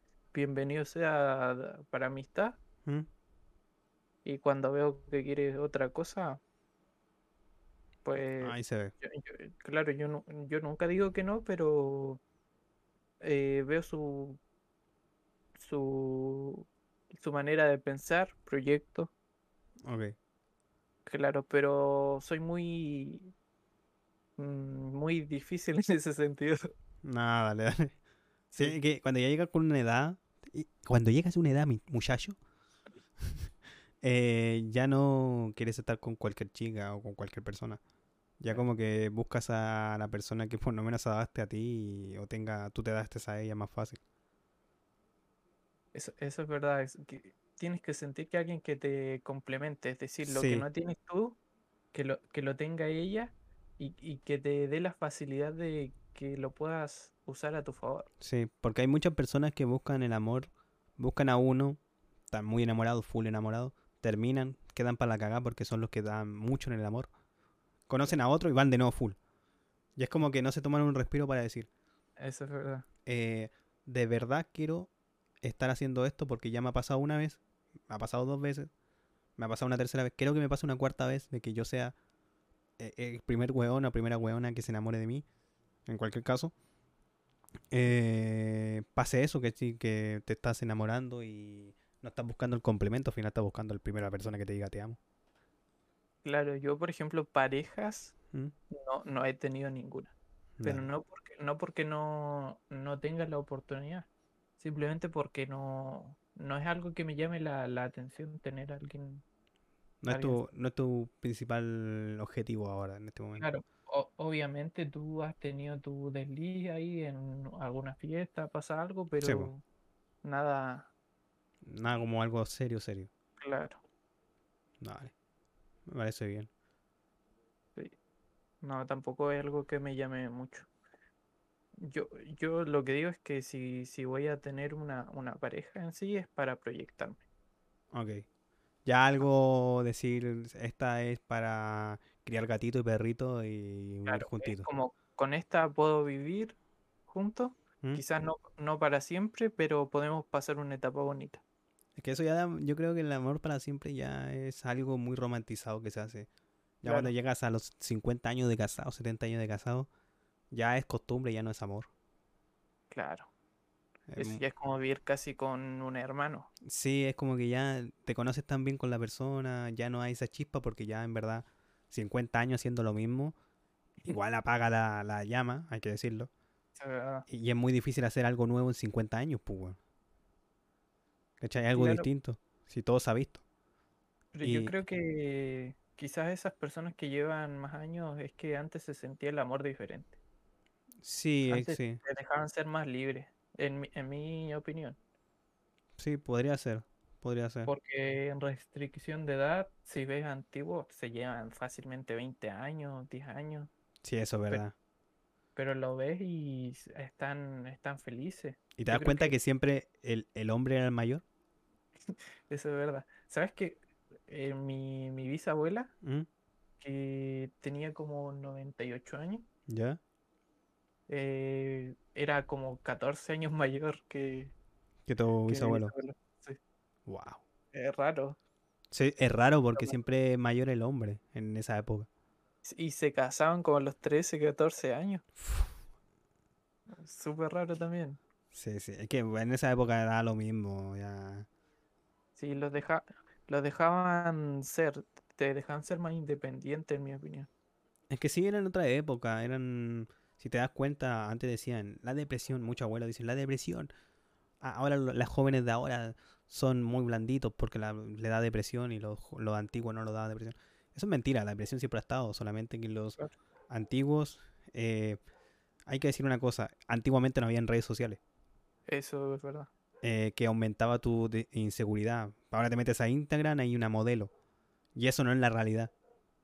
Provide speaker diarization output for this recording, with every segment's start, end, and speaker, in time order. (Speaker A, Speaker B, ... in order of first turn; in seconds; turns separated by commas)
Speaker A: 0.3-2.6, Speaker A: 4.2-6.4, Speaker A: 8.1-12.2, Speaker B: 8.4-8.9, Speaker A: 13.2-14.4, Speaker A: 15.6-19.1, Speaker B: 19.9-20.1, Speaker A: 21.1-23.3, Speaker A: 24.4-26.7, Speaker B: 27.0-28.0, Speaker A: 28.5-28.8, Speaker B: 28.6-32.4, Speaker B: 34.0-37.8, Speaker B: 38.4-44.0, Speaker A: 45.9-51.4, Speaker B: 50.2-50.7, Speaker A: 51.9-58.1, Speaker B: 58.2-61.8, Speaker B: 62.3-67.1, Speaker B: 67.9-69.2, Speaker B: 70.0-71.7, Speaker A: 72.2-72.9, Speaker B: 73.1-74.9, Speaker B: 75.4-78.7, Speaker B: 79.4-82.0, Speaker B: 82.8-85.2, Speaker B: 85.9-86.5, Speaker B: 87.7-95.0, Speaker A: 96.2-98.1, Speaker A: 98.7-100.1, Speaker B: 100.6-100.9, Speaker A: 100.6-104.1, Speaker A: 104.6-109.2, Speaker B: 110.0-113.5, Speaker A: 110.1-110.4, Speaker A: 113.4-119.6, Speaker B: 119.2-119.5, Speaker A: 120.2-120.9, Speaker B: 121.6-123.1, Speaker A: 123.4-123.8, Speaker B: 124.8-125.1, Speaker B: 125.9-126.5, Speaker A: 128.6-130.7, Speaker A: 131.8-137.2, Speaker B: 137.9-138.2, Speaker B: 138.9-144.7, Speaker A: 144.1-146.6, Speaker A: 147.1-151.4, Speaker B: 152.0-156.3, Speaker B: 156.8-159.9, Speaker A: 156.9-157.1, Speaker B: 160.5-161.9, Speaker A: 162.9-163.3, Speaker B: 164.1-164.4, Speaker A: 164.2-166.5, Speaker B: 166.7-173.3, Speaker B: 174.0-176.3, Speaker A: 176.8-177.3, Speaker B: 177.3-179.8, Speaker B: 181.4-183.4, Speaker A: 181.7-182.1, Speaker A: 184.3-190.2, Speaker B: 184.4-184.8, Speaker B: 191.0-192.0, Speaker A: 191.5-195.0, Speaker B: 196.0-197.7, Speaker A: 197.7-203.7, Speaker B: 204.0-204.7, Speaker A: 205.6-209.3, Speaker B: 208.8-211.2, Speaker A: 212.1-215.9, Speaker A: 216.8-219.4, Speaker B: 219.7-220.0, Speaker A: 221.1-224.5, Speaker B: 225.1-225.9, Speaker A: 225.5-226.6, Speaker B: 227.1-227.4, Speaker A: 227.7-228.4, Speaker B: 228.9-232.1, Speaker A: 232.7-235.2, Speaker B: 235.4-235.8, Speaker A: 236.9-238.2, Speaker B: 238.5-241.5, Speaker A: 242.4-247.5, Speaker B: 248.1-253.9, Speaker B: 254.6-263.2, Speaker B: 263.7-265.2, Speaker B: 265.9-268.2, Speaker A: 268.9-269.7, Speaker B: 270.0-274.3, Speaker B: 275.0-275.9